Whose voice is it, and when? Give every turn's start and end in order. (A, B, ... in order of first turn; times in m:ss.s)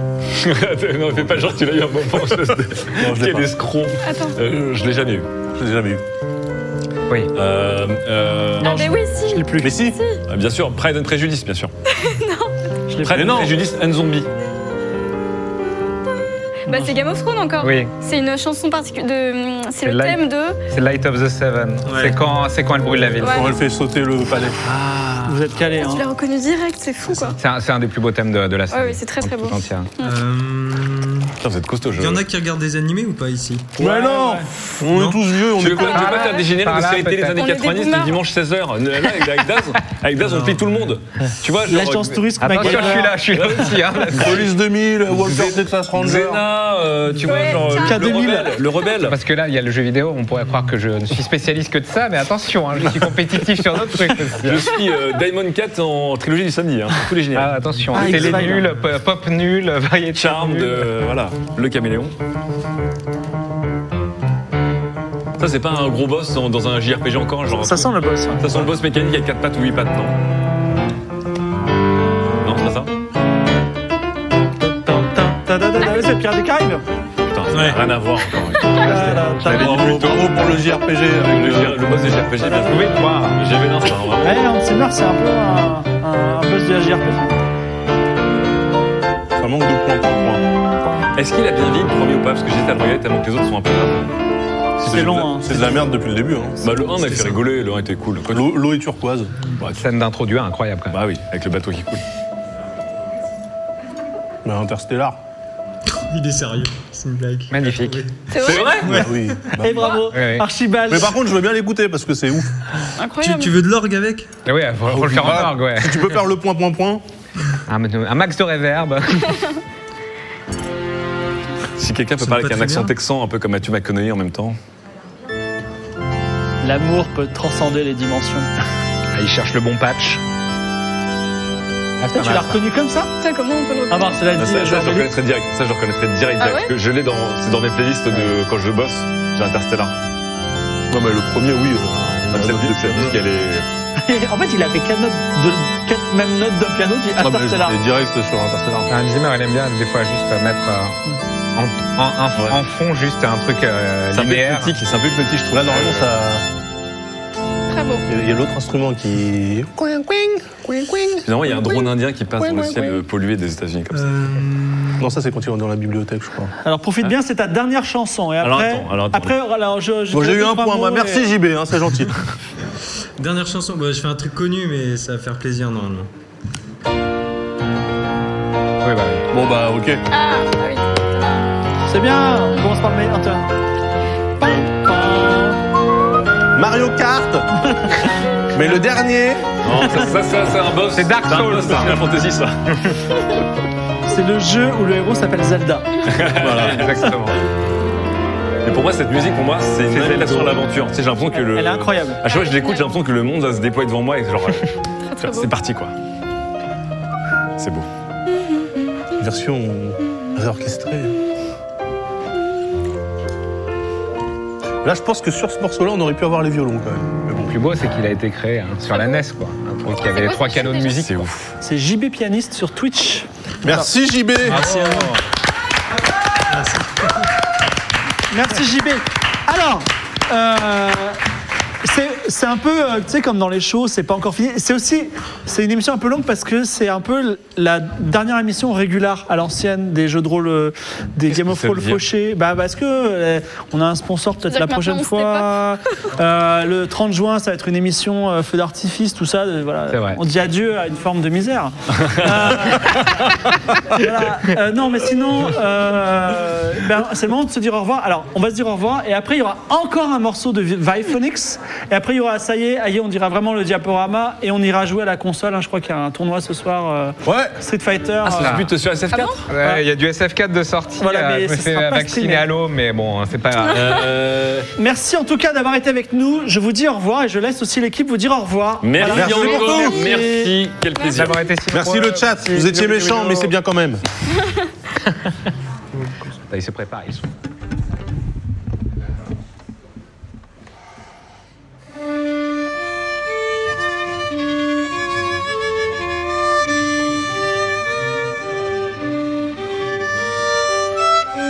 0:00.3-0:05.3 A
0:01.2-0:01.6 B
0:02.9-0:03.6 B
0:04.0-0:04.4 C
0:05.6-0:06.0 B
0:07.4-0:08.8 A
0:08.6-0:10.2 C
0:08.6-0:09.8 D
0:09.6-0:10.0 B
0:10.3-0:11.7 A
0:11.9-0:12.6 C
0:12.9-0:13.3 D
0:13.0-0:14.3 A
0:13.1-0:13.6 B
0:16.7-0:20.6 C
0:16.7-0:16.9 D
0:17.6-0:17.9 E
0:19.8-0:23.5 E
0:21.8-0:22.2 F
0:23.2-0:23.5 C
0:23.2-0:24.6 B
0:24.7-0:25.3 E
0:25.3-0:26.0 D
0:25.7-0:27.4 C
0:27.4-0:29.9 E
0:28.7-0:30.2 C
0:30.0-0:31.3 F
0:31.4-0:32.2 A
0:32.0-0:33.8 F
0:33.8-0:36.3 B
0:33.8-0:34.5 D
0:34.9-0:35.2 F
0:35.5-0:44.4 A
0:35.8-0:37.4 E
0:37.4-0:38.2 C
0:40.2-0:40.7 F
0:41.6-0:43.2 D
0:42.4-0:44.5 E
0:44.1-0:46.5 B
0:45.2-0:49.2 A
0:47.2-0:48.2 C
0:47.7-0:48.6 D
0:49.0-0:54.7 E
0:54.3-0:58.5 A
0:57.3-1:00.9 E
0:57.9-0:58.7 D
1:00.1-1:02.1 A
1:05.4-1:10.2 A
1:07.5-1:08.7 D
1:12.4-1:12.9 A
1:14.6-1:16.8 D
1:17.2-1:20.6 A
1:17.5-1:17.8 F
1:18.8-1:19.9 D
1:19.4-1:22.2 B
1:21.2-1:24.4 A
1:22.4-1:22.8 D
1:22.7-1:23.4 E
1:24.2-1:27.4 D
1:29.4-1:30.4 B
1:31.2-1:34.1 A
1:34.8-1:35.8 D
1:34.8-1:36.8 B
1:36.6-1:38.6 A
1:37.0-1:37.4 F
1:38.3-1:39.4 B
1:39.6-1:39.8 A
1:39.7-1:41.0 E
1:40.9-1:42.0 A
1:44.4-1:45.2 B
1:45.9-1:49.5 F
1:47.5-1:48.0 E
1:48.3-1:48.8 C
1:48.4-1:49.1 A
1:48.8-1:50.0 B
1:49.6-1:51.2 D
1:49.7-1:50.0 C
1:50.1-1:50.5 E
1:50.9-1:52.6 B
1:53.0-1:53.6 C
1:53.2-1:54.3 F
1:54.5-1:56.2 E
1:54.9-1:57.0 B
1:57.7-1:59.5 E
2:01.8-2:04.6 A
2:02.2-2:02.9 F
2:06.6-2:08.5 D
2:09.1-2:10.2 E
2:12.0-2:12.6 E
2:12.1-2:13.1 D
2:13.2-2:14.3 C
2:13.9-2:15.2 D
2:14.4-2:20.0 A
2:16.4-2:16.7 C
2:20.9-2:23.2 B
2:22.2-2:23.7 A
2:24.0-2:27.8 D
2:27.2-2:28.9 B
2:28.9-2:31.0 E
2:31.6-2:34.7 E
2:34.1-2:36.1 A
2:35.5-2:36.4 B
2:37.7-2:38.0 C
2:38.1-2:41.8 B
2:41.2-2:44.1 A
2:42.4-2:43.0 B
2:43.9-2:45.1 F
2:45.0-2:46.5 B
2:46.6-2:51.3 D
2:48.4-2:49.4 A
2:50.1-2:52.2 B
2:53.2-2:56.1 F
2:58.8-2:59.3 E
2:59.3-3:00.0 B
3:00.1-3:01.5 C
3:01.9-3:03.5 D
3:04.4-3:05.6 D
3:06.6-3:07.5 B
3:07.8-3:08.0 D
3:08.5-3:09.6 B
3:09.6-3:12.5 A
3:10.9-3:12.1 E
3:14.1-3:16.1 D
3:16.1-3:17.2 A
3:16.4-3:16.8 B
3:16.4-3:17.4 E
3:18.6-3:25.9 A
3:19.9-3:20.6 E
3:21.3-3:22.2 D
3:22.3-3:23.0 C
3:25.0-3:25.5 C
3:27.6-3:27.9 A
3:29.2-3:31.1 B
3:34.8-3:37.6 B
3:37.5-3:41.3 E
3:40.1-3:41.0 C
3:40.9-3:41.5 A
3:41.6-3:43.9 D
3:43.6-3:44.6 B
3:44.4-3:45.2 E
3:44.5-3:45.1 F
3:44.6-3:45.0 D
3:46.5-3:47.3 F
3:48.3-3:51.2 D
3:51.8-4:28.6 D
4:01.3-4:02.0 A
4:04.5-4:05.5 C
4:09.9-4:10.2 E
4:12.0-4:13.2 A
4:27.2-4:27.6 B
4:28.2-4:29.5 A
4:28.3-4:28.7 E
4:29.1-4:29.4 C
4:29.5-4:34.0 E
4:29.5-4:29.8 D
4:31.0-4:32.5 D
4:33.7-4:34.7 A
4:34.8-4:40.5 D
4:38.8-4:41.5 A
4:39.1-4:40.0 B
4:41.0-4:41.5 C
4:41.1-4:43.5 E
4:41.7-4:44.0 B
4:45.0-4:45.5 E
4:46.4-4:47.3 E